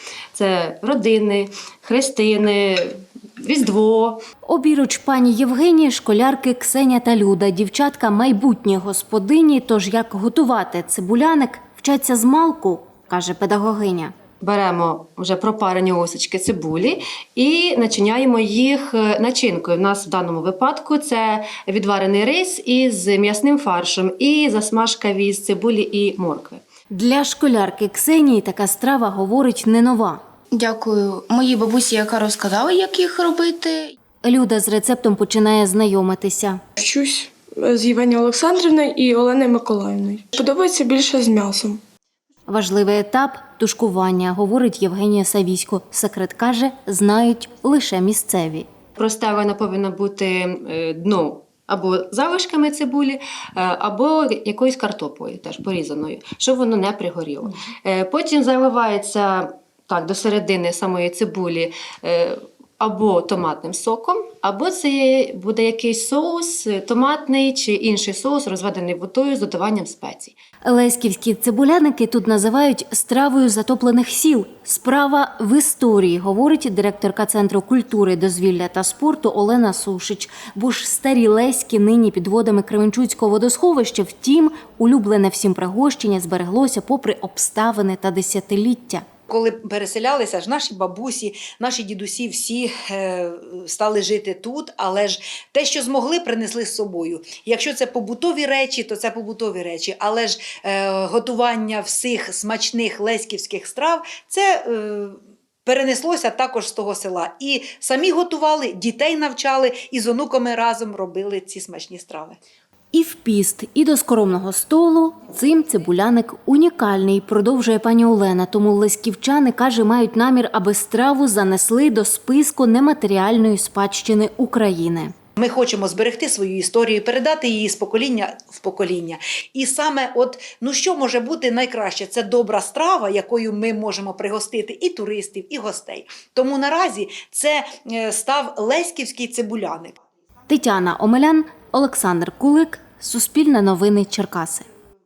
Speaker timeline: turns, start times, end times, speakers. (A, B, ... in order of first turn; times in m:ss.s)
0:00.3-0:04.2 A
0:04.4-0:14.1 B
0:14.4-0:26.6 A
0:26.9-0:30.2 B
0:30.5-0:33.9 C
0:34.2-0:36.6 B
0:36.8-0:41.8 D
0:42.5-0:48.7 B
0:49.0-1:10.4 A
1:10.6-1:29.0 B
1:29.3-1:52.4 E
1:52.9-2:05.1 B
2:05.4-2:20.0 E
2:20.5-2:24.6 B